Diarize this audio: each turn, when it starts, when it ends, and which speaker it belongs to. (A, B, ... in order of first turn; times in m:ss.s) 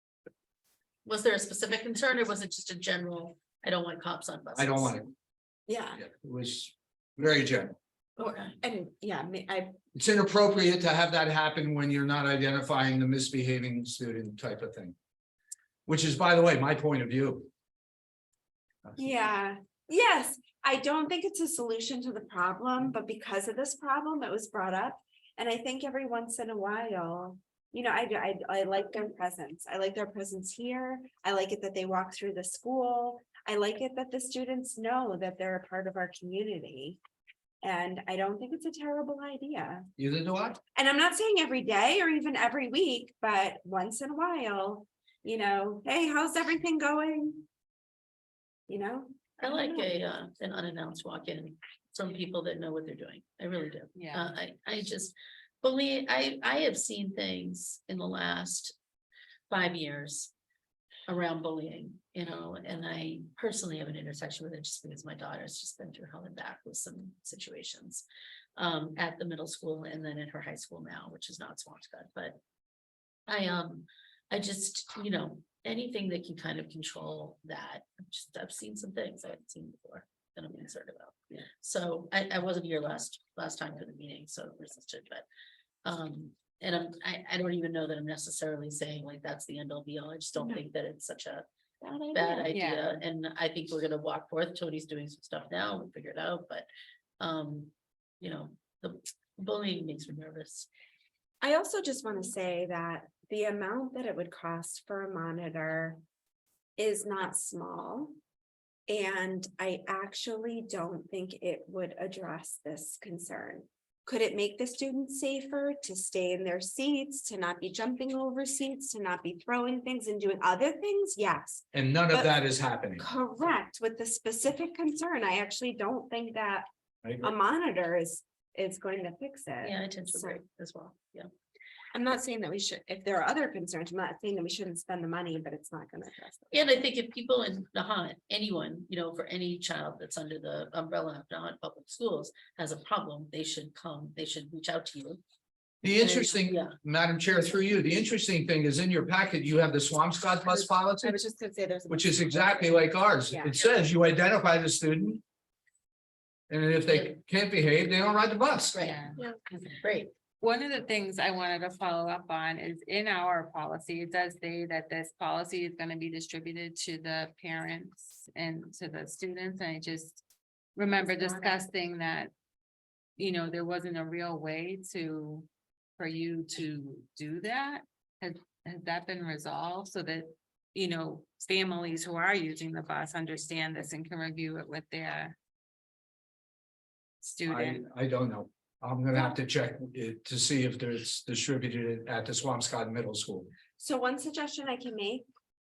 0:01.0-0:04.9 A
0:04.6-0:05.1 B
0:05.7-0:06.0 C
0:06.0-0:07.8 B
0:08.2-0:08.6 A
0:08.2-0:09.8 C
0:09.9-0:14.9 B
0:15.8-0:17.5 B
0:18.8-0:19.1 B
0:19.0-0:37.0 C
0:37.6-0:39.9 C
0:40.0-0:40.6 B
0:40.7-0:47.4 C
0:48.7-0:49.9 C
0:49.4-0:58.7 A
0:53.9-0:54.3 D
0:59.5-1:00.3 A
1:01.1-1:08.0 A
1:08.6-1:12.4 A
1:13.3-1:25.2 A
1:25.8-1:31.4 A
1:30.4-1:30.6 C
1:31.8-1:32.5 C
1:32.1-1:36.7 A
1:32.5-1:32.8 D
1:37.2-1:40.7 A
1:41.4-1:46.0 C
1:46.8-1:48.2 C
1:48.9-2:02.4 C
2:01.7-2:03.0 B
2:03.0-2:06.6 C
2:07.0-2:07.3 B
2:07.2-2:10.4 C
2:09.6-2:11.3 A
2:11.9-2:16.8 C
2:16.5-2:25.2 A
2:25.8-2:31.2 B
2:26.0-2:26.3 C
2:26.2-2:26.7 A
2:30.5-2:33.7 C
2:31.9-2:35.2 B
2:36.5-2:38.8 B
2:36.9-2:37.2 A
2:38.7-2:40.1 A
2:38.8-2:39.2 D
2:40.4-2:50.2 D
2:50.8-2:52.3 D
2:51.2-2:51.5 C
2:53.2-2:55.5 D
2:56.0-3:05.4 D
3:07.2-3:07.8 D
3:07.4-3:13.5 B
3:13.8-3:15.3 C